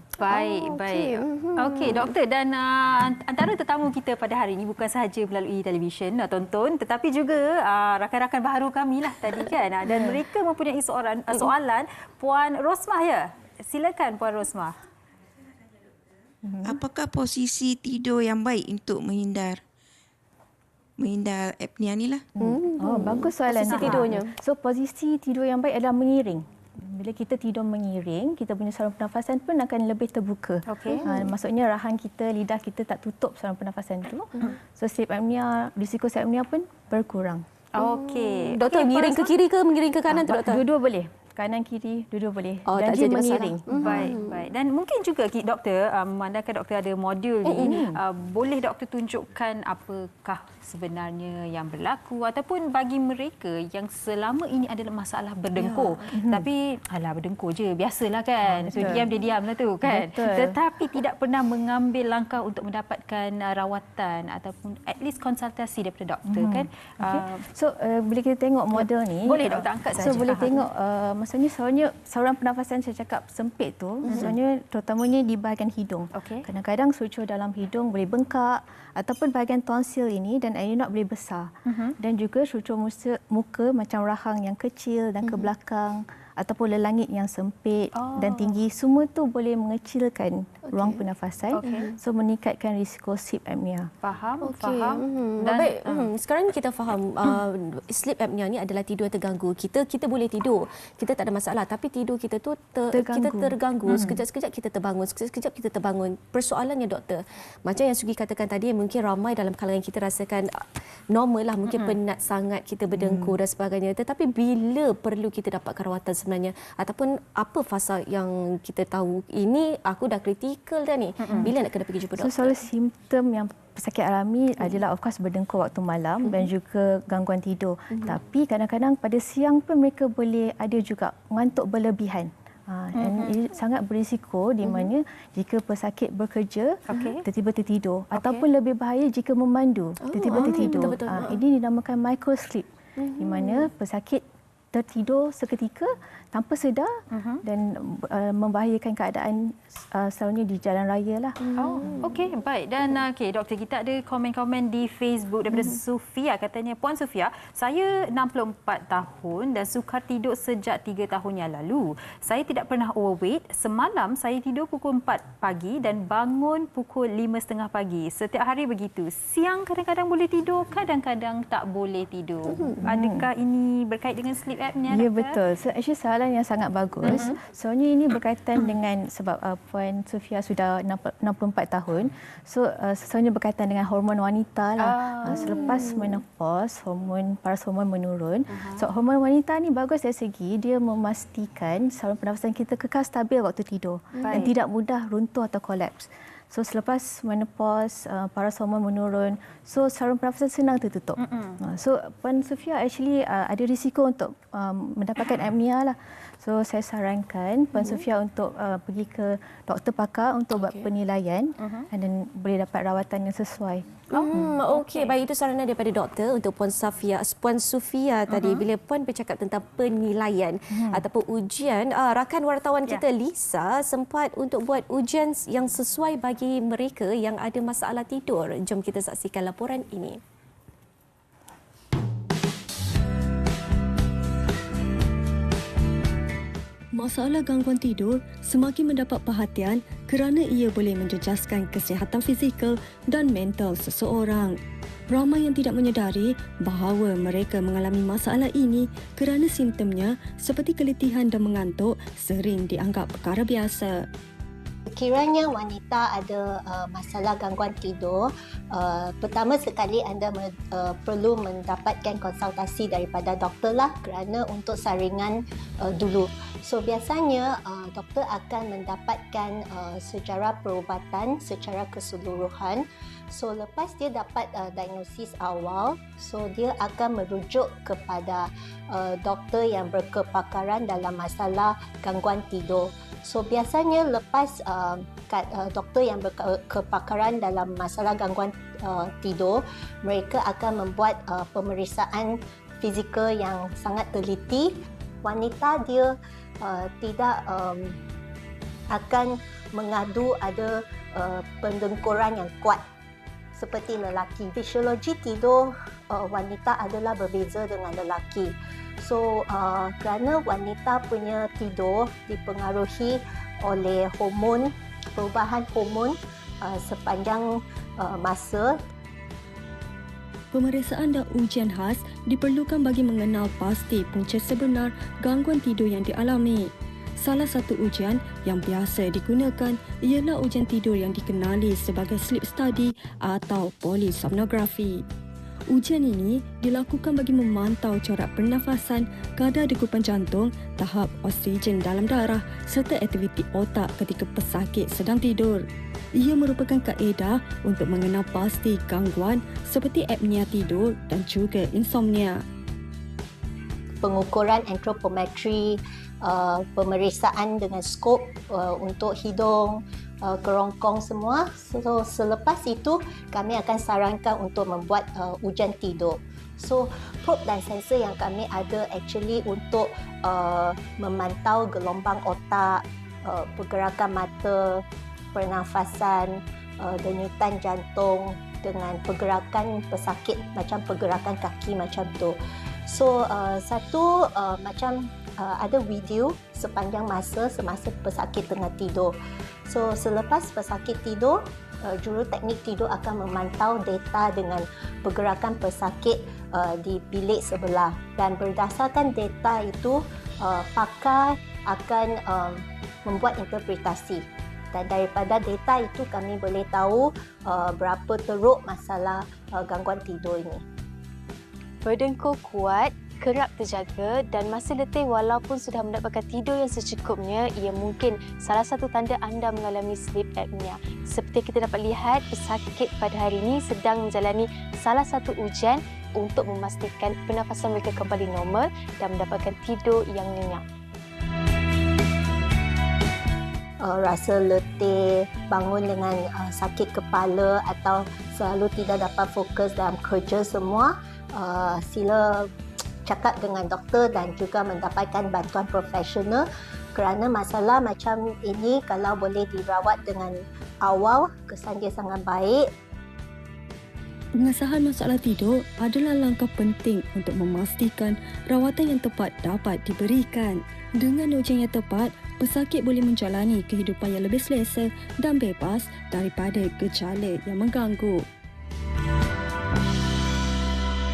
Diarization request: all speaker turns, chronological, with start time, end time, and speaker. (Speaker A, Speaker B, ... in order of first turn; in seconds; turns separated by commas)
Speaker A: 0.2-14.8, Speaker B: 0.3-2.1, Speaker C: 16.4-16.8, Speaker D: 16.6-19.6, Speaker D: 21.0-22.3, Speaker B: 22.4-24.4, Speaker C: 22.4-37.5, Speaker A: 23.7-24.0, Speaker A: 30.7-31.1, Speaker B: 30.9-31.2, Speaker A: 37.8-39.3, Speaker B: 37.8-40.6, Speaker C: 40.1-44.1, Speaker B: 42.7-44.4, Speaker A: 43.8-67.4, Speaker B: 47.5-47.8, Speaker C: 47.6-48.0, Speaker C: 56.1-56.5, Speaker C: 58.5-59.1, Speaker C: 59.8-60.6, Speaker C: 66.3-93.9, Speaker A: 68.8-70.6, Speaker A: 76.1-76.5, Speaker A: 81.7-82.0, Speaker A: 88.0-88.6, Speaker B: 90.7-91.0, Speaker A: 91.5-91.9, Speaker A: 94.0-96.1, Speaker B: 94.4-122.6, Speaker C: 102.9-104.2, Speaker A: 111.7-112.0, Speaker C: 112.9-113.3, Speaker A: 121.2-121.5, Speaker C: 122.2-142.7, Speaker A: 133.0-133.3, Speaker A: 136.9-137.2, Speaker A: 138.2-138.4, Speaker B: 140.0-141.4, Speaker A: 140.4-140.9, Speaker B: 143.0-143.7, Speaker C: 143.2-151.5, Speaker A: 147.1-147.4, Speaker B: 151.4-152.0, Speaker A: 151.6-175.4, Speaker C: 172.8-173.3, Speaker C: 174.9-214.5, Speaker A: 177.1-177.3, Speaker A: 184.8-185.9, Speaker A: 188.5-188.8, Speaker A: 194.2-194.5, Speaker A: 201.2-201.6, Speaker A: 211.6-211.9, Speaker A: 214.1-215.1, Speaker B: 214.1-230.2, Speaker A: 218.3-218.6, Speaker C: 220.7-221.0, Speaker E: 236.9-254.1, Speaker F: 254.9-298.0, Speaker F: 298.9-302.8, Speaker F: 303.5-318.8, Speaker E: 320.5-335.0, Speaker E: 335.7-345.6, Speaker E: 346.2-352.4, Speaker F: 354.0-389.1, Speaker F: 389.7-410.6, Speaker G: 411.8-430.6, Speaker F: 433.8-442.5, Speaker F: 443.1-452.7, Speaker E: 454.4-468.2